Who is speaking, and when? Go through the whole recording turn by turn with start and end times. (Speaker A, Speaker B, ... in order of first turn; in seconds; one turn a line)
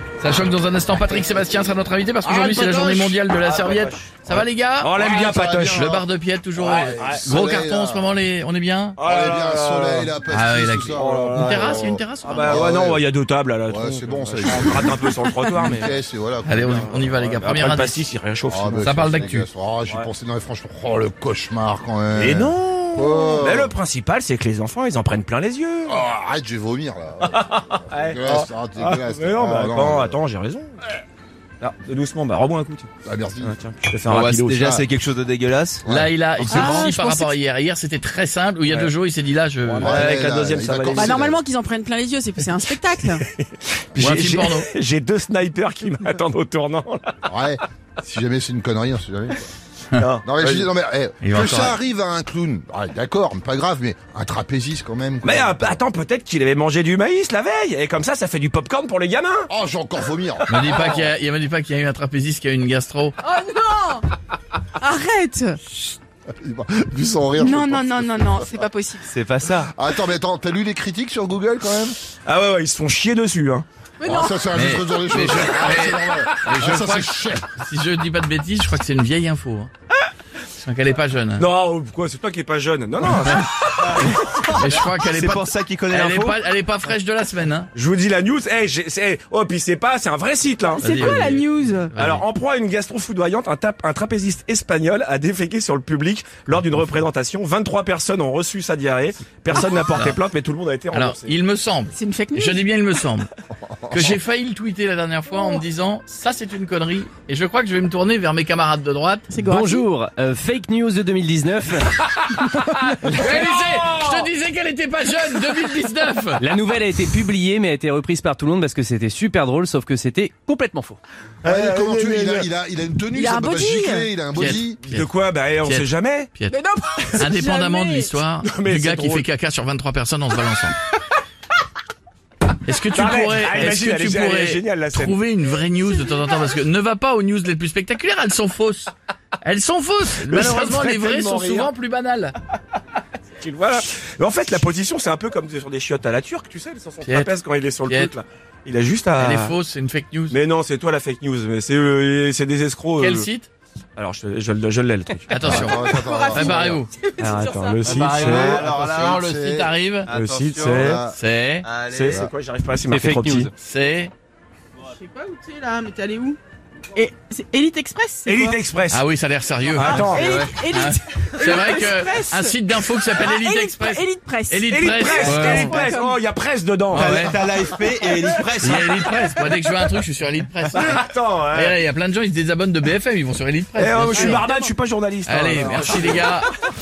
Speaker A: 0.2-9.0
Speaker B: 2.3-3.1
Speaker C: 2.3-6.0
Speaker B: 5.0-6.0
Speaker C: 6.6-7.2
Speaker B: 6.7-8.2
Speaker C: 9.0-10.2
Speaker B: 9.0-13.0
Speaker A: 10.3-12.7
Speaker C: 10.9-15.9
Speaker B: 13.7-17.5
Speaker A: 15.6-15.9
Speaker A: 16.4-18.1
Speaker C: 16.8-19.3
Speaker B: 18.5-23.8
Speaker A: 18.8-19.5
Speaker C: 22.1-26.0
Speaker B: 25.9-30.2
Speaker C: 27.2-30.8
Speaker C: 31.6-34.8
Speaker B: 33.0-33.6
Speaker D: 34.0-35.9
Speaker B: 34.6-34.9
Speaker B: 35.9-36.7
Speaker A: 35.9-40.0
Speaker E: 36.5-37.3
Speaker D: 36.5-36.9
Speaker C: 39.6-41.3
Speaker B: 39.8-41.4
Speaker E: 40.9-43.3
Speaker C: 43.1-47.3
Speaker A: 44.0-44.7
Speaker B: 47.3-49.4
Speaker C: 50.0-50.7
Speaker B: 50.2-55.8
Speaker A: 51.2-51.8
Speaker C: 55.2-59.5
Speaker B: 59.5-60.8
Speaker A: 60.5-63.2
Speaker C: 60.6-60.9
Speaker E: 63.2-64.1
Speaker E: 64.8-65.6
Speaker B: 66.4-68.6
Speaker E: 67.4-69.2
Speaker D: 69.1-69.7
Speaker B: 69.6-72.0
Speaker C: 72.2-73.7
Speaker E: 74.0-74.7
Speaker B: 74.0-77.5
Speaker A: 74.5-79.7
Speaker C: 75.2-75.7
Speaker A: 80.6-81.5
Speaker C: 81.4-84.5
Speaker D: 83.9-86.4
Speaker A: 84.6-87.7
Speaker C: 87.7-91.4
Speaker E: 90.7-91.9
Speaker A: 90.8-92.2
Speaker C: 92.0-101.4
Speaker A: 100.9-103.3
Speaker E: 101.9-102.6
Speaker A: 103.9-109.3
Speaker E: 109.3-109.9
Speaker F: 109.5-111.7
Speaker A: 113.0-116.5
Speaker C: 113.0-114.3
Speaker F: 116.4-120.8
Speaker C: 121.4-122.5
Speaker B: 121.4-124.8
Speaker E: 123.1-124.1
Speaker A: 124.3-125.1
Speaker C: 124.8-126.3
Speaker A: 125.6-126.6
Speaker E: 126.5-128.1
Speaker A: 127.2-130.8
Speaker C: 128.4-129.3
Speaker A: 132.6-142.3
Speaker C: 132.9-135.2
Speaker C: 140.3-141.7
Speaker C: 143.4-149.6
Speaker A: 147.0-147.3
Speaker A: 147.8-148.1
Speaker A: 149.2-150.4
Speaker C: 150.3-153.3
Speaker A: 153.0-153.5
Speaker C: 154.0-155.7
Speaker A: 155.3-156.9
Speaker B: 155.4-156.8
Speaker E: 155.4-157.9
Speaker C: 157.2-158.6
Speaker D: 157.8-159.2
Speaker B: 157.9-159.7
Speaker A: 158.1-160.1
Speaker D: 160.1-161.0
Speaker C: 160.1-161.0
Speaker B: 160.6-161.2
Speaker A: 161.1-161.7
Speaker D: 161.7-162.3
Speaker C: 161.8-163.5
Speaker F: 162.9-163.5
Speaker A: 163.6-164.1
Speaker E: 164.9-166.4
Speaker E: 166.9-168.6
Speaker C: 168.2-169.0
Speaker A: 168.9-170.2
Speaker C: 169.7-170.3
Speaker E: 169.8-176.2
Speaker D: 170.2-170.5
Speaker A: 170.7-175.9
Speaker C: 174.7-178.5
Speaker D: 176.9-179.1
Speaker A: 176.9-177.4
Speaker A: 178.6-184.5
Speaker C: 180.7-181.8
Speaker C: 183.8-186.3
Speaker E: 184.1-184.7
Speaker A: 185.3-186.5